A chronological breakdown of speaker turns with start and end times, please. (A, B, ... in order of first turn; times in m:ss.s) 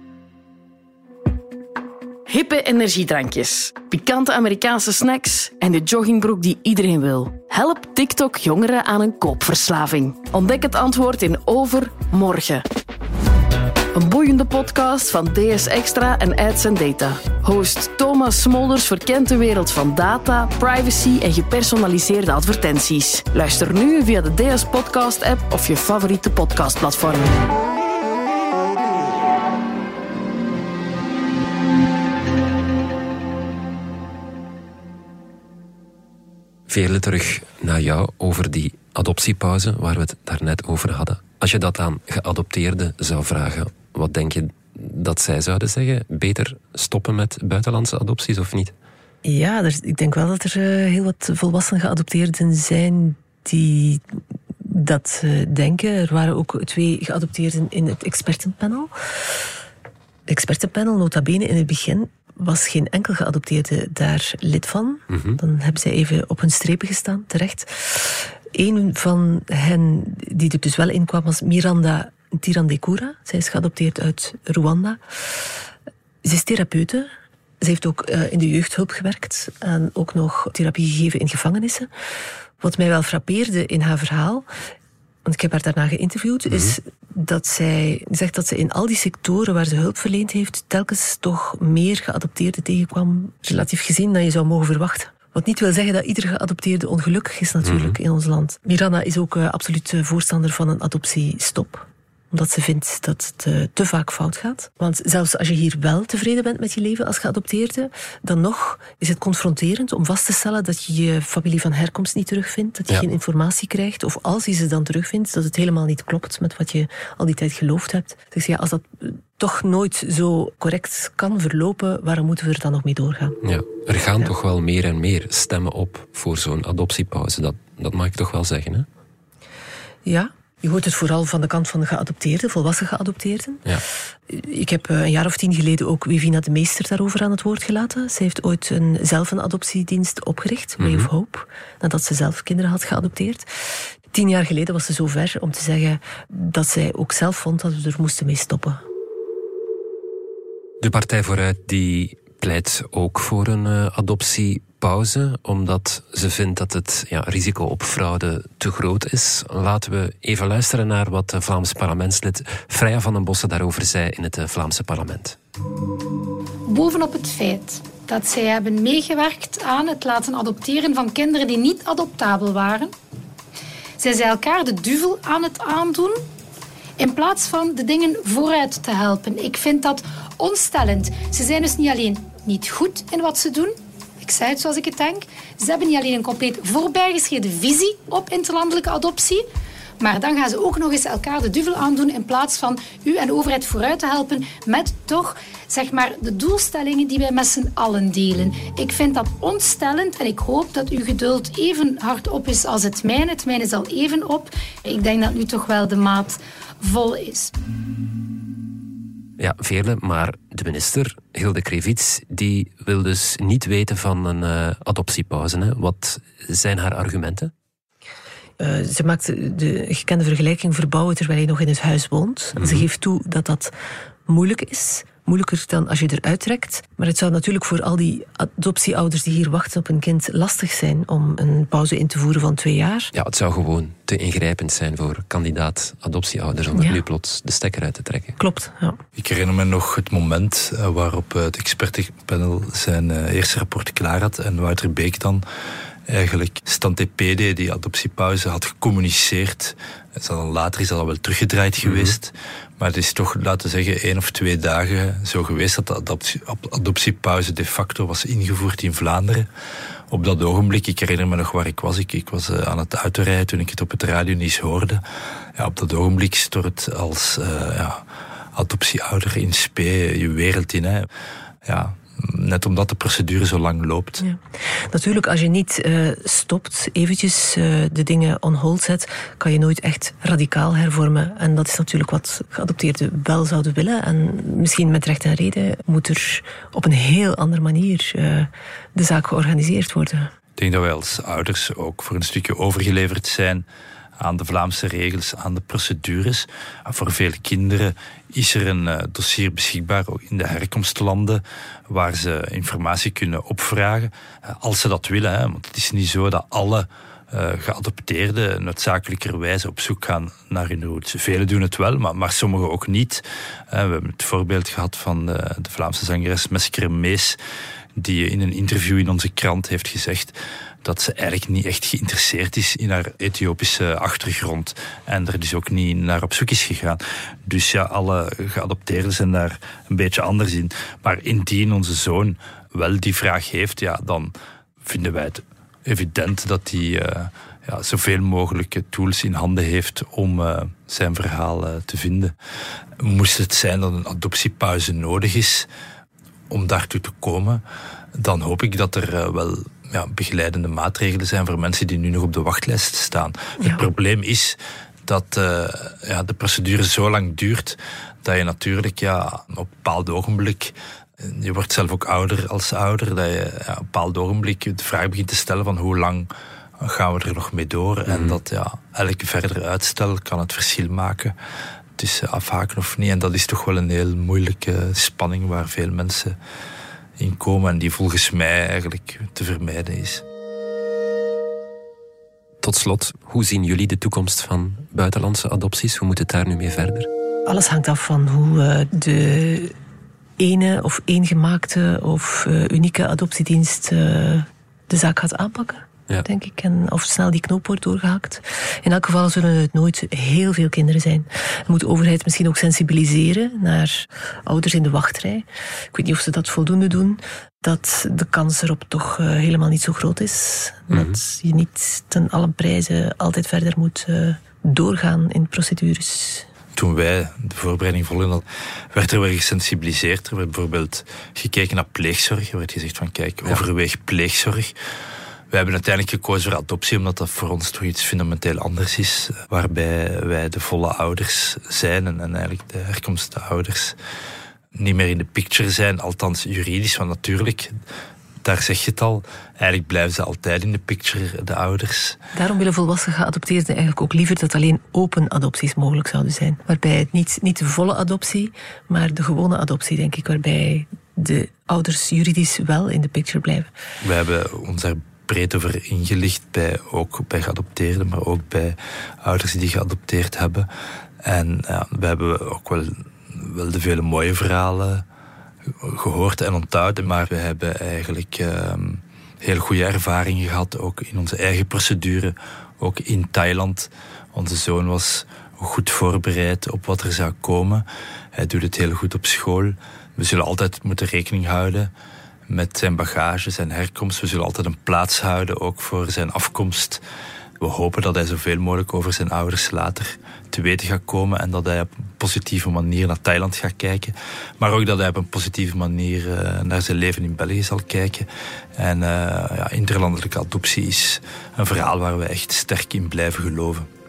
0:02.3-0:12.6 A
0:13.9-0:27.4 A
0:36.7-0:48.7 B
0:49.2-0:54.0 C
0:54.6-0:58.9 C
1:00.3-1:15.3 C
1:05.1-1:05.4 B
1:16.2-1:17.1 C
1:17.6-1:21.9 C
1:22.6-1:24.4 C
1:25.2-2:03.4 C
1:26.5-1:26.7 B
1:37.6-1:38.0 B
2:03.4-2:08.9 B
2:10.0-2:13.6 C
2:14.3-2:28.8 C
2:20.8-2:21.1 B
2:30.8-2:45.4 B
2:46.7-2:52.9 D
2:54.0-2:56.2 D
2:57.0-3:09.4 D
3:10.0-3:27.5 D
3:29.4-3:37.5 B
3:38.6-3:43.7 C
3:42.6-3:42.9 B
3:44.3-3:53.1 C
3:53.1-3:58.4 B
3:56.7-3:57.0 C
3:58.4-3:59.0 C
3:59.2-4:05.4 E
4:06.1-4:19.5 E
4:11.8-4:12.2 B
4:20.1-4:25.0 E
4:25.6-4:28.0 E
4:28.5-4:31.1 E
4:31.6-4:34.2 E
4:34.2-4:50.3 C
4:50.6-4:53.6 E
4:54.2-5:17.4 E
5:18.0-5:42.3 E
5:43.0-5:45.7 E
5:46.5-5:47.6 E
5:48.2-5:54.6 E
5:55.1-6:06.3 E
6:06.8-6:11.3 E
6:08.1-6:08.4 B
6:12.0-6:16.4 E
6:17.2-6:20.2 E
6:22.6-6:27.1 B
6:27.5-6:29.7 C
6:30.4-6:56.4 C
6:50.9-6:51.2 B
6:56.8-7:04.7 E
7:05.5-7:13.9 E
7:14.8-7:17.7 E
7:18.4-7:22.2 E
7:22.3-7:33.7 C
7:34.0-7:40.7 E
7:41.2-7:45.0 E
7:45.8-8:01.9 E
8:02.5-8:07.0 E
8:07.6-8:23.9 E